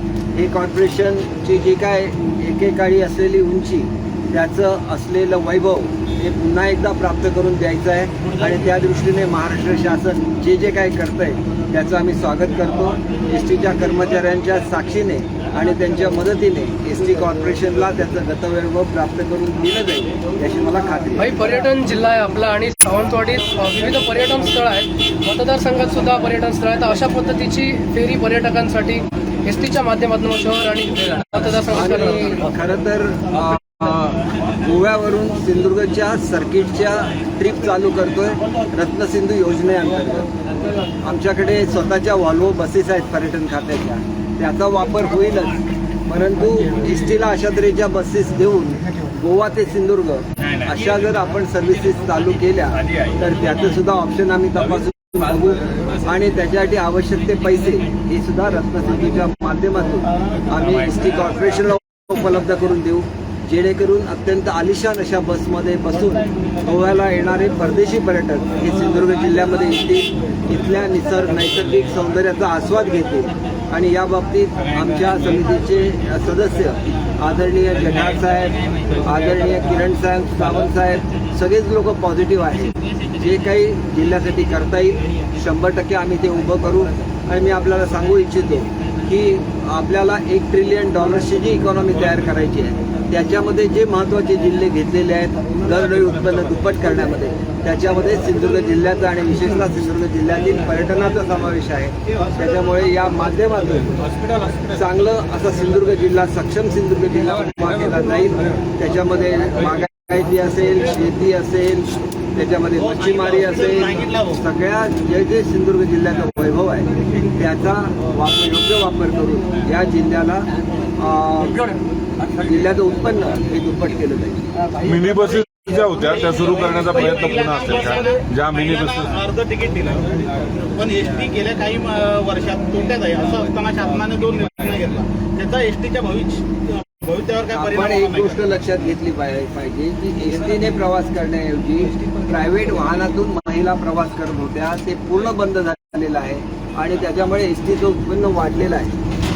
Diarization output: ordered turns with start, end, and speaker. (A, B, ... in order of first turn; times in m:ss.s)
0:00.3-0:21.4 A
0:21.2-0:32.4 B
0:31.7-0:40.3 A
0:41.0-1:44.0 A
1:44.7-2:01.6 A
2:02.3-2:04.5 A
2:04.8-2:09.5 C
2:10.9-2:13.8 D
2:14.6-2:14.9 D
2:15.5-2:16.4 D
2:17.5-2:29.0 A